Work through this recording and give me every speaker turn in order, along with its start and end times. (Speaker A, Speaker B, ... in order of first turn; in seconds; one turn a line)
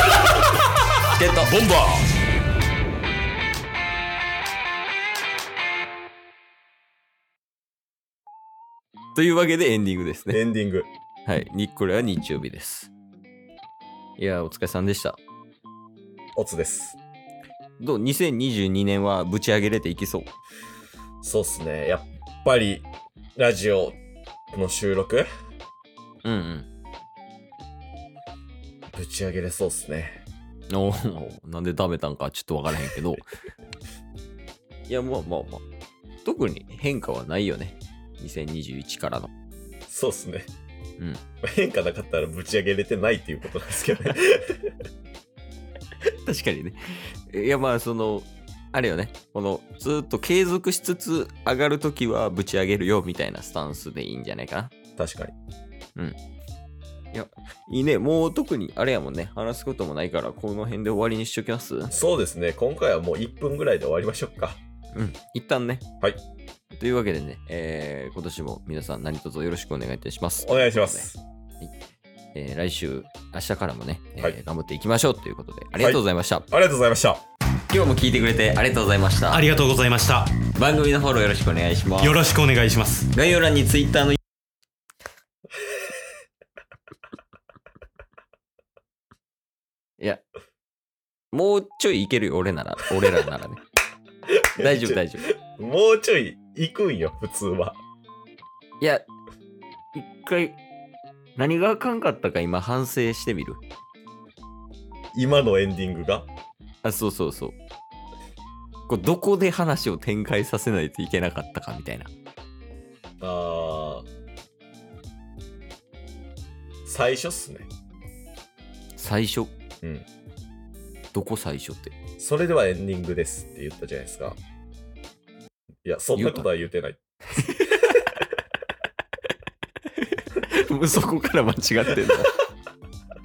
Speaker A: 1.1-1.6
Speaker B: 1.4-2.1
Speaker A: 9.1-10.4
Speaker C: 10.3-10.9
Speaker A: 11.2-12.9
Speaker A: 14.2-15.2
Speaker C: 16.4-17.0
Speaker A: 17.8-20.3
Speaker C: 21.2-24.0
Speaker C: 24.5-25.3
Speaker A: 26.2-26.7
Speaker C: 28.9-30.2
Speaker A: 30.7-33.2
Speaker A: 34.9-35.6
Speaker A: 36.2-39.3
Speaker C: 39.9-40.5
Speaker C: 41.4-44.7
Speaker A: 46.2-54.7
Speaker C: 55.0-55.3
Speaker A: 57.1-62.0
Speaker C: 61.9-64.6
Speaker A: 64.9-65.8
Speaker A: 66.8-71.1
Speaker C: 70.4-71.2
Speaker A: 72.3-76.5
Speaker C: 75.8-77.2
Speaker A: 77.7-79.5
Speaker B: 79.3-80.4
Speaker A: 80.5-82.2
Speaker B: 82.0-83.1
Speaker A: 83.1-84.2
Speaker A: 91.3-93.6
Speaker C: 94.4-97.8
Speaker A: 94.6-95.3
Speaker A: 98.8-99.1
Speaker A: 99.9-100.6
Speaker A: 101.4-103.6
Speaker C: 105.1-106.3
Speaker A: 106.8-107.6
Speaker A: 108.9-112.1
Speaker C: 113.2-114.1
Speaker C: 116.8-117.7
Speaker A: 119.0-119.5
Speaker A: 121.1-121.9
Speaker C: 122.2-124.4
Speaker C: 125.8-127.0
Speaker A: 126.1-126.5
Speaker A: 127.3-128.1
Speaker A: 130.1-132.3